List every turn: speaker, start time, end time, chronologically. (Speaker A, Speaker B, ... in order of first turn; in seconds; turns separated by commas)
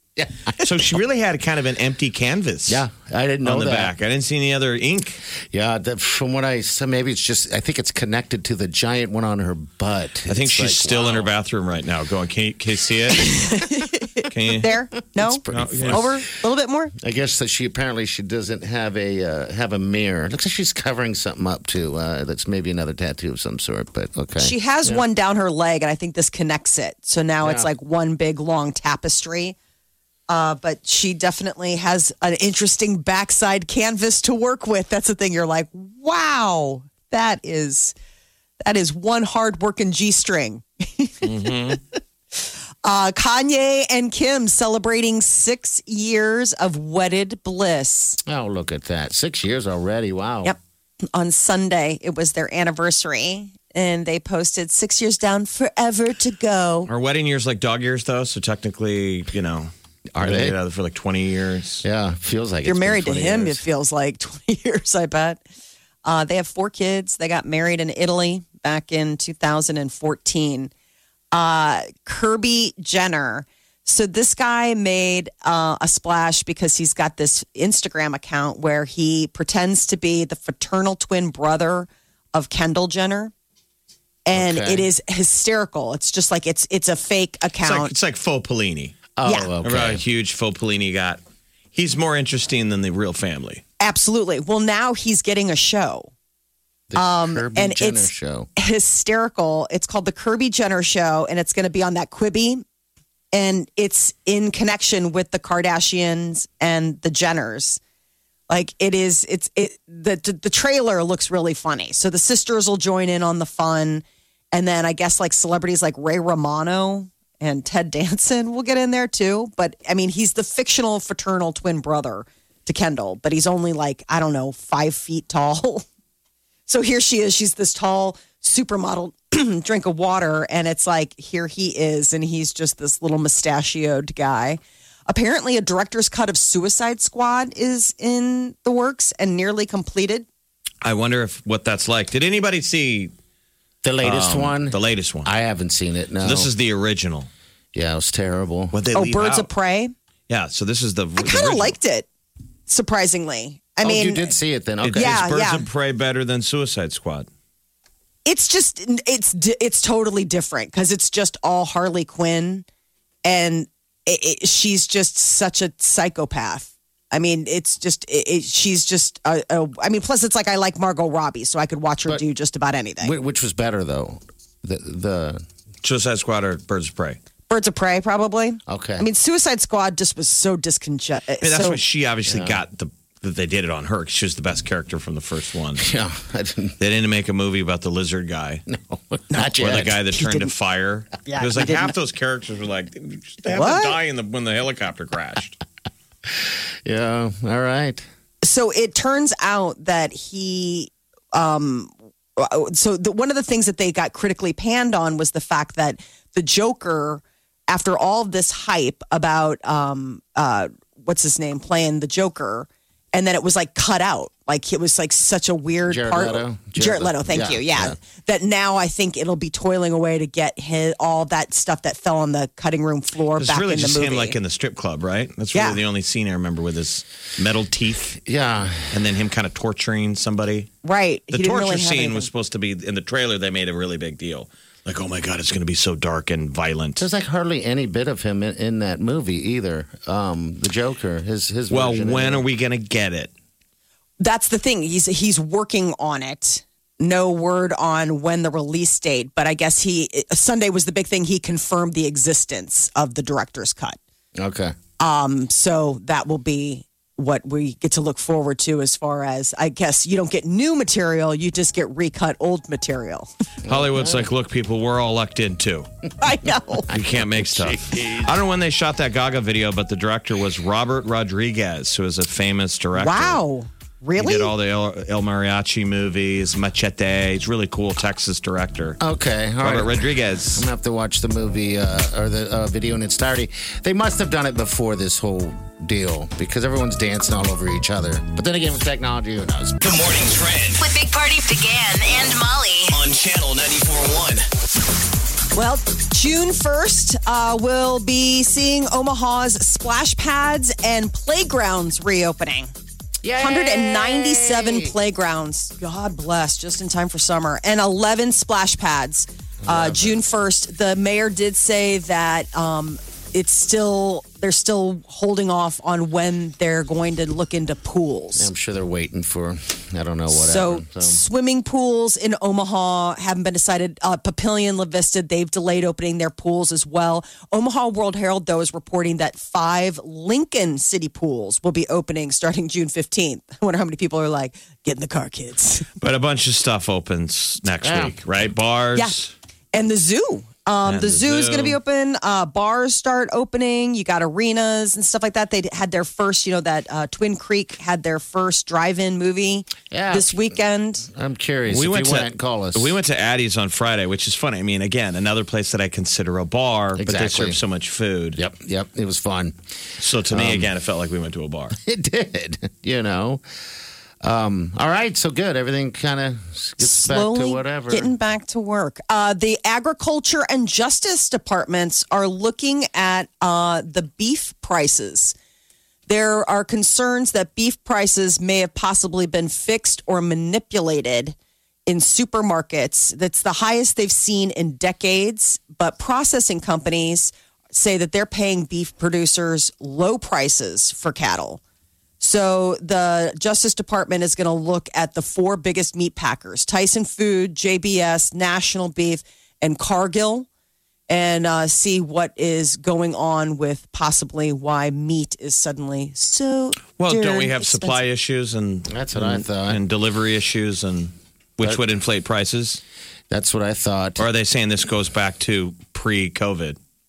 Speaker A: 0.2-0.5, Speaker B: 0.6-2.8, Speaker A: 2.7-3.9, Speaker B: 3.4-5.2, Speaker A: 5.5-11.3, Speaker B: 10.3-13.7, Speaker C: 13.2-16.9, Speaker B: 14.3-14.7, Speaker A: 15.2-16.2, Speaker B: 15.5-16.1, Speaker A: 17.0-25.0, Speaker C: 24.4-29.6, Speaker A: 27.4-27.7, Speaker C: 30.3-38.0, Speaker C: 38.6-41.8, Speaker B: 41.2-41.8, Speaker C: 42.8-48.2, Speaker A: 48.3-50.5, Speaker C: 51.1-56.9, Speaker B: 56.9-61.8, Speaker A: 60.1-60.6, Speaker A: 61.8-63.6, Speaker C: 62.6-65.4, Speaker C: 66.0-70.7, Speaker C: 71.3-83.3, Speaker C: 84.3-87.9, Speaker A: 84.3-84.9, Speaker B: 87.6-89.1, Speaker A: 89.2-90.0, Speaker B: 89.6-91.2, Speaker B: 91.7-93.6, Speaker C: 93.8-96.1, Speaker A: 96.9-98.5, Speaker C: 97.0-102.6, Speaker C: 103.3-107.8, Speaker C: 108.5-125.8, Speaker C: 126.7-140.3, Speaker B: 140.8-143.1, Speaker A: 143.8-146.5, Speaker B: 144.0-145.3, Speaker B: 146.2-147.3, Speaker A: 147.7-148.8, Speaker B: 148.7-149.5, Speaker C: 148.9-149.9, Speaker B: 150.3-151.8, Speaker C: 151.2-152.1, Speaker C: 152.7-154.3, Speaker A: 153.8-155.3, Speaker B: 154.8-157.3, Speaker C: 155.0-155.6, Speaker C: 158.3-162.7, Speaker C: 163.2-173.1, Speaker A: 173.0-175.4, Speaker B: 175.8-177.2, Speaker C: 177.5-181.8, Speaker A: 178.7-179.1, Speaker B: 181.4-185.9, Speaker A: 182.3-182.6, Speaker A: 185.8-186.8, Speaker B: 186.8-188.7, Speaker A: 188.7-190.0, Speaker B: 189.5-195.6, Speaker C: 190.1-190.5, Speaker C: 191.3-191.9, Speaker C: 193.5-194.0, Speaker A: 196.3-198.0, Speaker C: 198.4-224.4, Speaker A: 215.9-218.0, Speaker B: 223.4-228.2, Speaker C: 225.5-225.8, Speaker A: 228.3-228.9, Speaker B: 228.9-230.7, Speaker C: 230.8-232.3, Speaker B: 231.3-237.1, Speaker A: 237.0-242.4, Speaker B: 241.7-243.3, Speaker C: 244.2-254.0, Speaker A: 254.4-254.8, Speaker C: 255.0-263.3, Speaker A: 263.6-264.3, Speaker B: 263.7-265.9, Speaker C: 266.2-266.9, Speaker A: 266.9-268.3, Speaker B: 266.9-273.4, Speaker C: 272.9-274.5, Speaker B: 274.2-279.0, Speaker A: 279.0-289.8, Speaker B: 279.6-280.7, Speaker D: 289.8-290.8, Speaker E: 290.8-293.0, Speaker D: 292.9-294.5, Speaker C: 295.6-302.7, Speaker A: 303.2-304.9, Speaker C: 303.4-318.5, Speaker A: 309.6-310.2, Speaker A: 318.4-321.2, Speaker C: 320.3-335.9, Speaker B: 336.0-339.3, Speaker A: 337.8-338.2, Speaker C: 339.7-351.1, Speaker B: 340.9-341.8, Speaker A: 349.9-350.5, Speaker A: 351.1-352.9, Speaker B: 351.7-358.4, Speaker A: 357.0-357.6, Speaker A: 358.4-359.6, Speaker B: 360.0-361.8, Speaker A: 360.3-360.7, Speaker A: 361.8-363.4, Speaker A: 364.2-368.1, Speaker C: 366.8-375.4, Speaker C: 376.1-381.4, Speaker C: 381.9-391.6, Speaker C: 392.2-400.5, Speaker C: 401.1-408.0, Speaker B: 407.0-412.8, Speaker A: 408.9-409.8, Speaker A: 413.3-414.3, Speaker B: 414.2-416.8